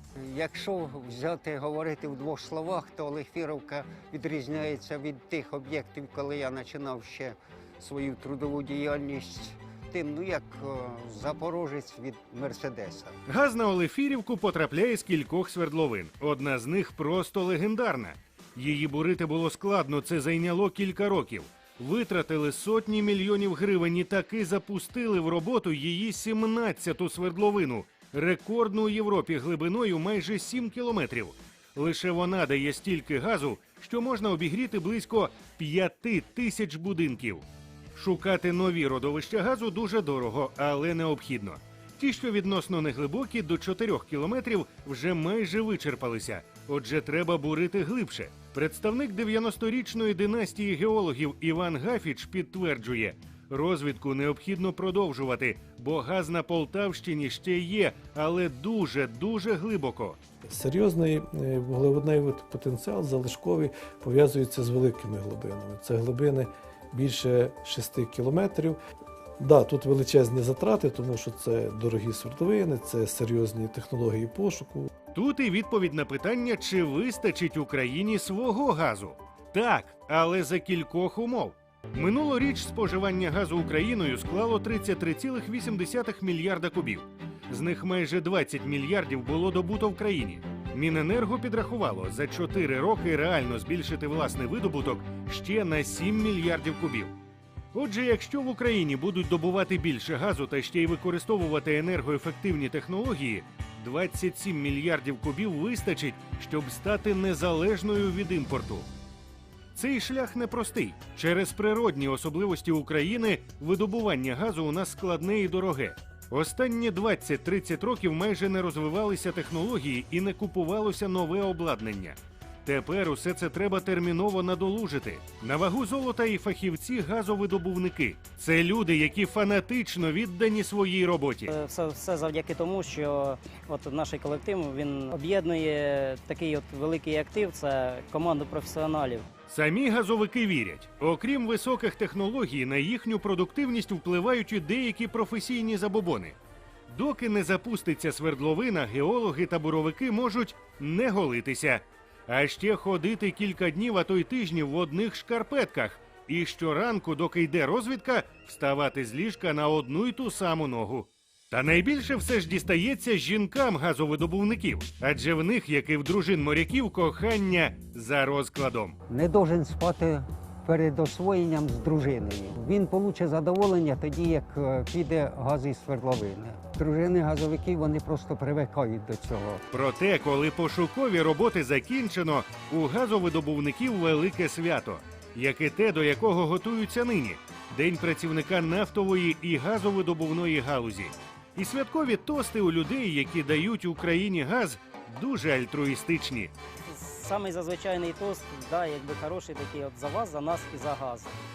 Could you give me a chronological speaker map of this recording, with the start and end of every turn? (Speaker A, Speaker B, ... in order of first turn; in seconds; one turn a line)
Speaker A: 0.2-13.2
Speaker B: 13.3-37.4
Speaker B: 38.0-60.2
Speaker C: 60.5-68.8
Speaker C: 69.4-74.9
Speaker B: 75.1-97.2
Speaker B: 97.7-108.9
Speaker B: 109.7-131.5
Speaker D: 131.5-139.3
Speaker B: 139.5-146.4
Speaker B: 146.9-169.0
Speaker A: 169.1-179.6
Speaker B: 179.7-196.5
Speaker D: 196.9-201.4